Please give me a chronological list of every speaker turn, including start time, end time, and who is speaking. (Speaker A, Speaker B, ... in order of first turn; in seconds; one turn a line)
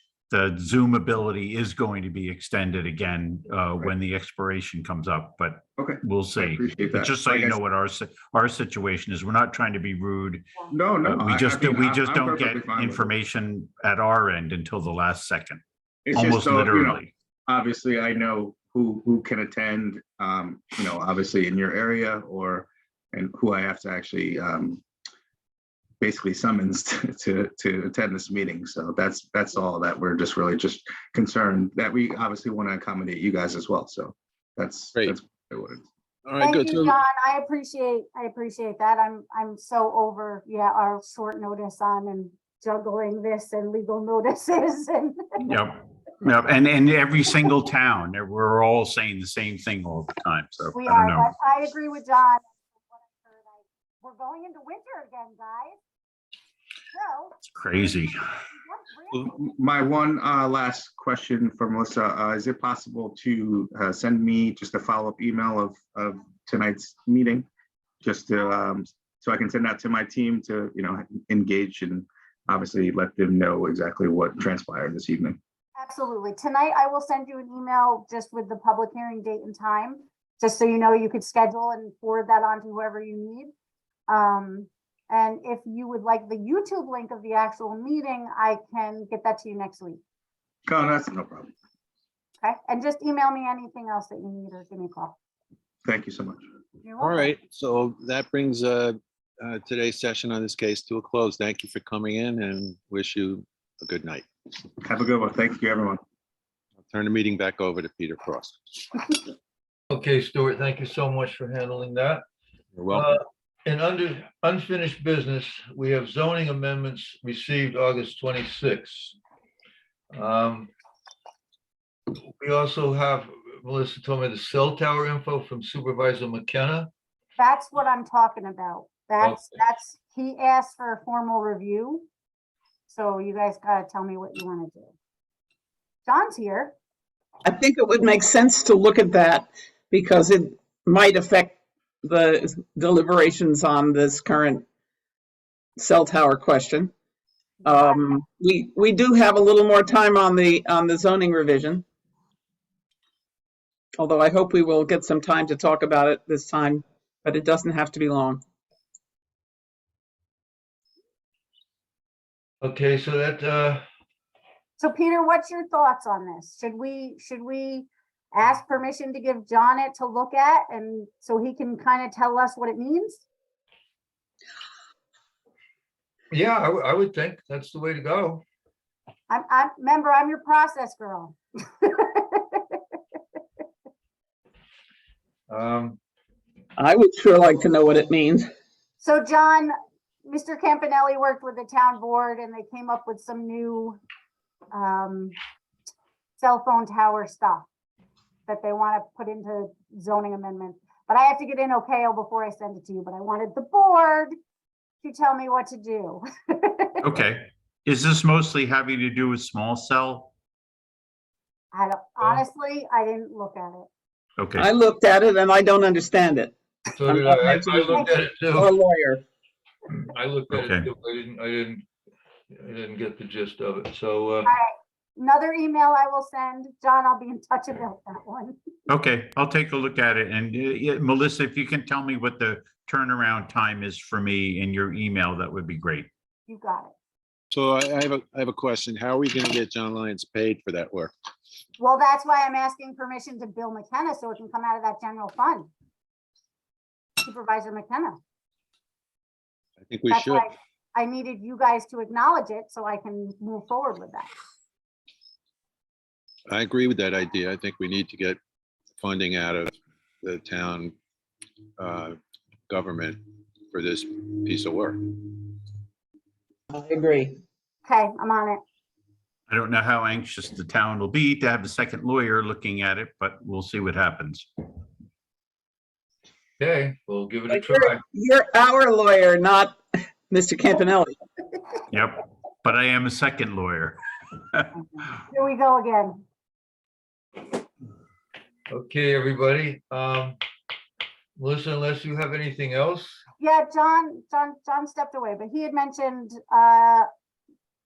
Speaker A: 0.3-10.5
Speaker B: 5.8-7.6
Speaker B: 10.7-13.1
Speaker A: 11.0-15.6
Speaker B: 16.1-24.8
Speaker A: 16.1-17.1
Speaker B: 26.0-35.8
Speaker C: 36.2-37.0
Speaker D: 36.4-45.4
Speaker A: 45.4-51.3
Speaker D: 50.7-55.8
Speaker D: 56.9-59.5
Speaker A: 57.4-58.2
Speaker B: 59.3-67.5
Speaker B: 68.0-75.4
Speaker D: 75.8-83.5
Speaker D: 84.1-90.0
Speaker B: 90.7-91.5
Speaker D: 92.4-95.2
Speaker B: 95.8-96.4
Speaker D: 96.8-97.3
Speaker C: 97.0-104.2
Speaker B: 104.8-106.0
Speaker C: 106.8-109.1
Speaker E: 109.9-112.2
Speaker C: 112.8-113.1
Speaker E: 112.9-119.2
Speaker E: 120.1-120.7
Speaker E: 122.1-126.9
Speaker D: 127.4-132.1
Speaker E: 129.2-129.6
Speaker D: 132.9-134.9
Speaker D: 136.1-136.7
Speaker F: 137.4-144.6
Speaker F: 145.8-146.9
Speaker D: 147.6-148.0
Speaker F: 147.6-151.8
Speaker F: 154.0-158.4
Speaker E: 162.6-163.8
Speaker D: 164.8-173.2
Speaker E: 176.3-178.4
Speaker D: 179.3-182.8
Speaker E: 185.5-186.0
Speaker F: 186.8-188.5
Speaker D: 189.0-189.7
Speaker D: 190.2-194.0
Speaker D: 194.7-195.3
Speaker D: 196.4-197.7
Speaker D: 198.5-204.3
Speaker D: 205.0-206.9
Speaker A: 207.0-210.3
Speaker D: 211.7-213.9
Speaker A: 214.4-214.7
Speaker F: 214.6-219.2
Speaker E: 216.9-218.7
Speaker E: 219.9-221.8
Speaker A: 220.5-220.9
Speaker E: 222.5-224.5
Speaker D: 224.4-228.6
Speaker A: 228.9-236.1
Speaker D: 236.5-236.9
Speaker C: 237.5-241.1
Speaker D: 241.8-245.7
Speaker D: 247.2-248.2
Speaker C: 249.8-250.5
Speaker D: 250.1-254.3
Speaker C: 256.5-258.4
Speaker C: 259.0-260.9
Speaker C: 261.8-262.2
Speaker C: 262.7-265.5
Speaker F: 266.7-267.4
Speaker D: 267.8-268.6
Speaker A: 269.5-274.5
Speaker E: 276.6-278.0
Speaker F: 277.5-281.2
Speaker A: 281.9-284.0
Speaker D: 285.2-286.2
Speaker E: 288.7-290.4
Speaker E: 291.4-293.2
Speaker D: 293.4-297.1